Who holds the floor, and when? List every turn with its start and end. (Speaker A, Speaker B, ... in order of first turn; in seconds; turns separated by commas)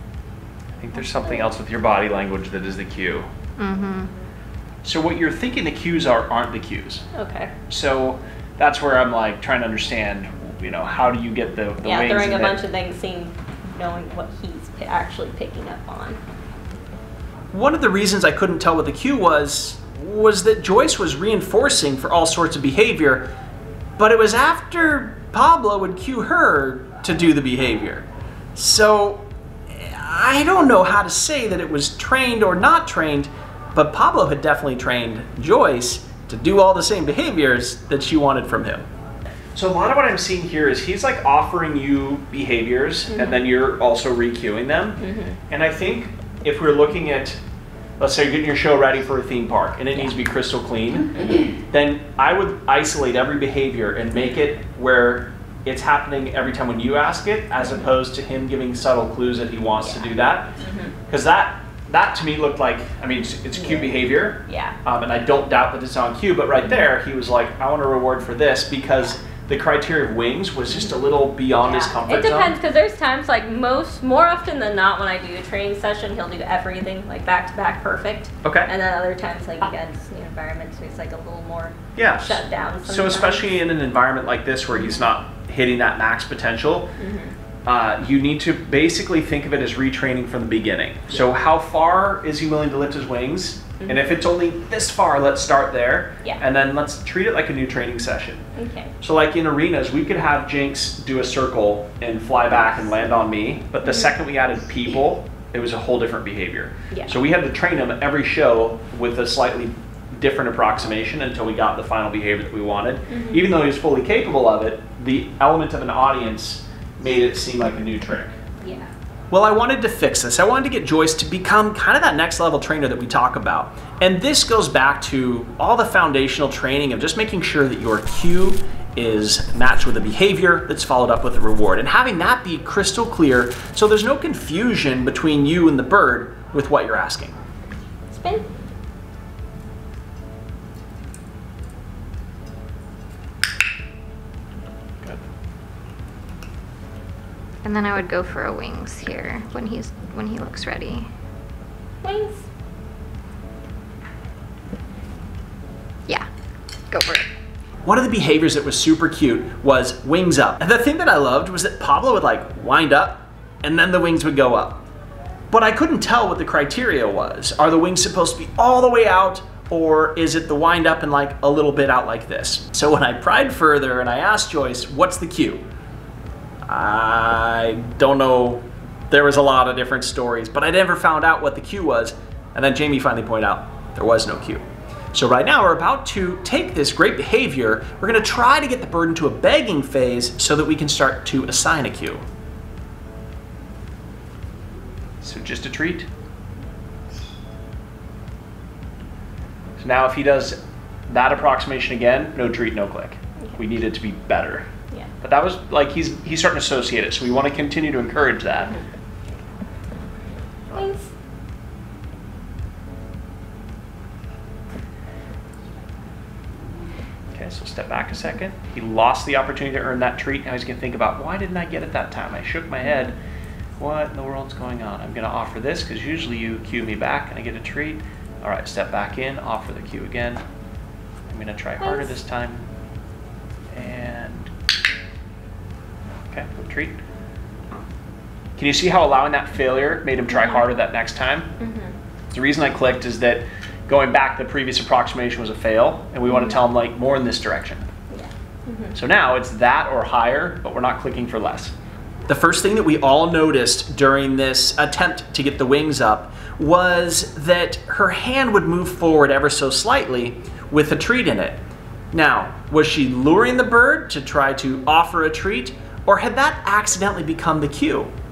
Speaker A: 0.8-3.3, Speaker B: 3.6-4.1, Speaker A: 4.8-7.0, Speaker C: 7.1-7.5, Speaker A: 7.7-12.6, Speaker C: 11.8-16.2, Speaker A: 17.5-23.3, Speaker A: 24.0-38.8, Speaker A: 39.5-47.4, Speaker C: 43.1-43.4, Speaker C: 45.0-45.4, Speaker A: 48.0-60.5, Speaker C: 59.8-60.1, Speaker C: 60.6-60.9, Speaker A: 61.1-72.5, Speaker C: 64.5-64.8, Speaker C: 71.6-83.5, Speaker A: 78.4-78.7, Speaker A: 81.9-86.9, Speaker C: 87.0-87.3, Speaker A: 87.7-98.4, Speaker C: 98.5-98.9, Speaker A: 99.0-118.3, Speaker C: 103.8-104.1, Speaker C: 113.1-113.5, Speaker C: 118.6-118.9, Speaker A: 119.3-137.3, Speaker C: 138.1-138.5, Speaker B: 147.6-151.1, Speaker C: 152.0-152.4, Speaker B: 156.9-157.3, Speaker A: 157.8-164.8, Speaker A: 165.5-175.6, Speaker A: 176.7-192.2, Speaker A: 195.2-196.1, Speaker A: 199.8-204.7, Speaker A: 205.2-208.7, Speaker C: 210.7-211.1, Speaker A: 217.3-223.1, Speaker A: 223.8-230.4, Speaker A: 231.3-232.7, Speaker C: 231.8-232.1, Speaker A: 233.7-234.5, Speaker A: 236.3-237.0, Speaker A: 238.6-241.5, Speaker C: 241.6-241.9, Speaker A: 242.3-247.8, Speaker C: 246.3-246.6, Speaker C: 248.1-248.9, Speaker A: 248.9-251.7, Speaker A: 252.3-261.6, Speaker A: 262.1-268.1